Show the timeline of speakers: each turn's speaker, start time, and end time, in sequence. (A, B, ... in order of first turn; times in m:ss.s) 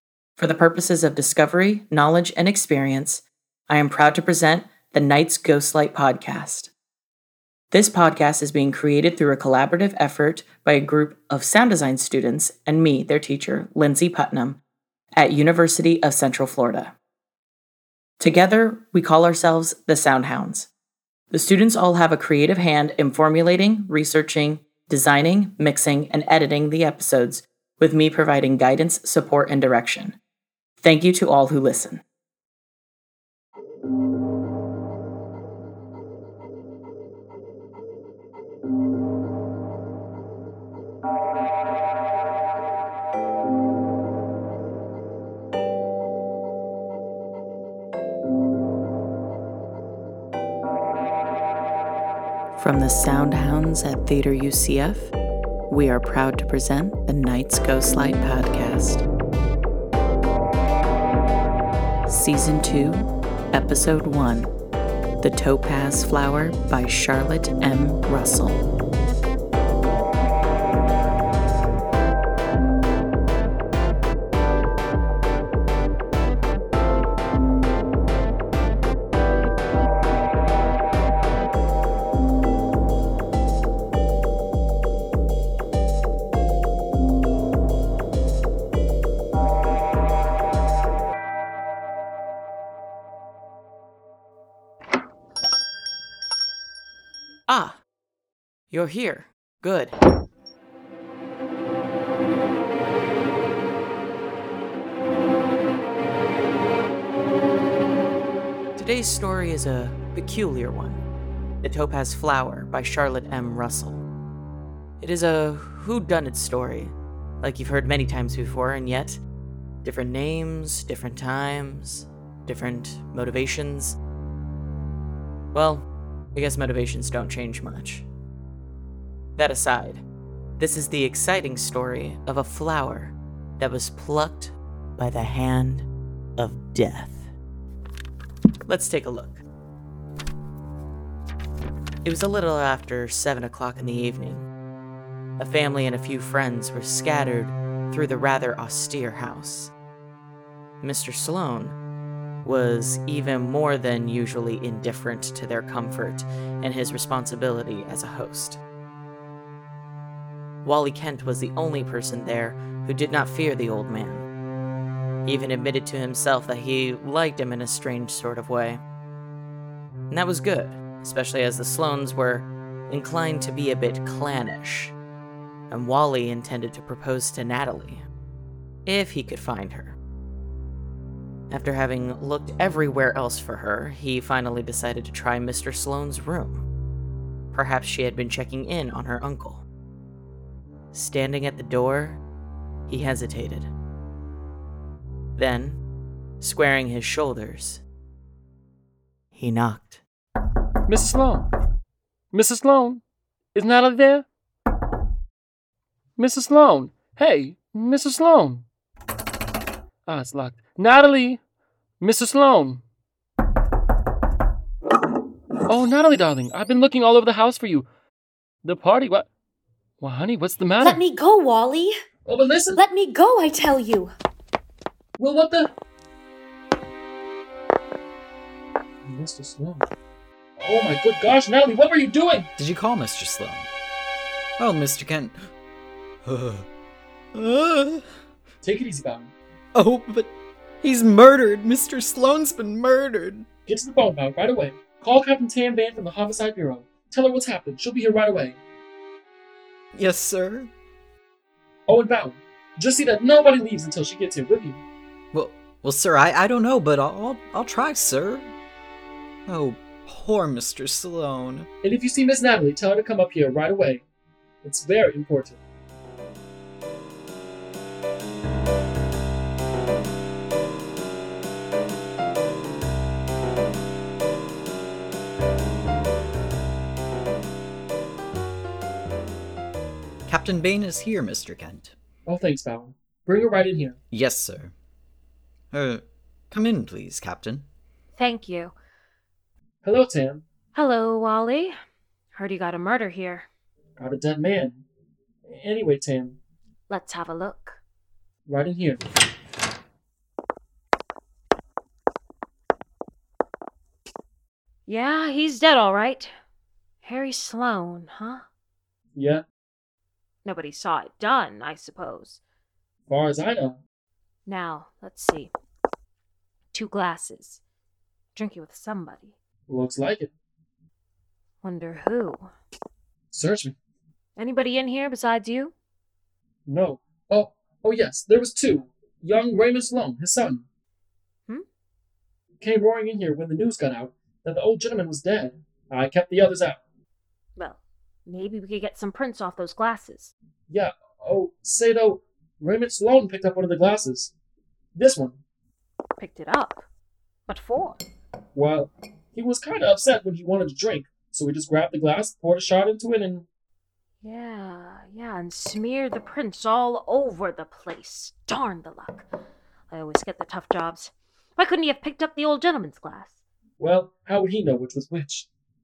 0:00.4-0:06.7 A
0:07.7-0:14.6 A
0:15.2-0:17.0 A
0:18.2-0:20.7 A
0:21.3-0:30.2 A
0:30.8-0:32.0 A
0:52.6-0:55.1 A
0:55.7-0:59.0 A
1:02.1-1:04.5 A
1:05.2-1:08.6 A
1:37.5-1:37.8 A
1:38.7-1:39.9 A
1:48.8-1:51.0 A
1:51.6-1:54.0 A
1:55.0-1:59.2 A
1:59.8-2:04.0 A
2:05.5-2:08.1 A
2:09.4-2:10.0 A
2:10.6-2:17.3 A
2:18.7-2:19.4 A
2:22.0-2:24.5 A
2:25.4-2:29.7 A
2:30.8-2:31.8 A
2:32.4-2:38.6 A
2:40.6-2:44.3 A
2:45.2-2:48.8 A
2:50.1-2:54.9 A
2:55.7-2:58.0 A
2:58.8-3:00.0 A
3:01.5-3:06.6 A
3:07.5-3:09.6 A
3:10.9-3:12.2 A
3:12.9-3:13.7 A
3:15.4-3:15.8 A
3:16.4-3:17.8 A
3:19.3-3:20.0 A
3:20.9-3:21.5 B
3:22.3-3:23.0 B
3:23.5-3:24.2 B
3:26.2-3:28.6 B
3:30.1-3:31.4 B
3:32.0-3:32.8 B
3:35.7-3:37.9 B
3:38.6-3:39.3 B
3:40.0-3:41.0 B
3:40.8-3:41.9 C
3:42.2-3:42.8 B
3:42.8-3:44.1 C
3:45.2-3:45.7 B
3:49.0-3:49.9 B
3:50.6-3:52.5 B
3:52.6-3:53.7 D
3:54.6-3:55.4 D
3:56.2-3:56.7 D
3:57.3-3:58.1 D
3:58.6-3:59.3 B
3:59.8-4:03.4 D
4:03.7-4:08.6 B
4:09.9-4:10.7 D
4:11.9-4:14.8 B
4:15.3-4:18.5 D
4:19.5-4:21.7 D
4:21.8-4:24.0 B
4:24.6-4:25.6 B
4:40.2-4:41.9 D
4:42.2-4:44.0 B
4:44.1-4:44.7 D
4:45.7-4:47.7 D
4:48.2-4:48.7 E
4:49.8-4:50.4 B
4:50.7-4:51.8 E
4:52.3-4:53.5 E
4:54.0-4:54.8 B
4:55.4-4:56.4 B
4:56.9-4:57.8 E
4:58.5-4:59.0 B
5:04.9-5:06.3 E
5:07.0-5:08.4 E
5:09.1-5:09.4 B
5:10.4-5:12.4 E
5:13.1-5:13.8 B
5:14.4-5:15.5 E
5:16.7-5:17.6 E
5:18.3-5:19.4 E
5:19.7-5:20.3 B
5:21.6-5:22.5 E
5:23.3-5:23.8 B
5:24.4-5:25.7 E
5:26.6-5:30.6 B
5:32.6-5:36.8 B
5:37.6-5:40.3 E
5:40.7-5:44.3 B
5:44.9-5:45.4 B
5:46.2-5:46.9 E
5:47.5-5:48.0 E
5:48.6-5:53.4 B
5:54.2-5:59.3 E
5:59.9-6:03.4 E
6:03.8-6:05.5 B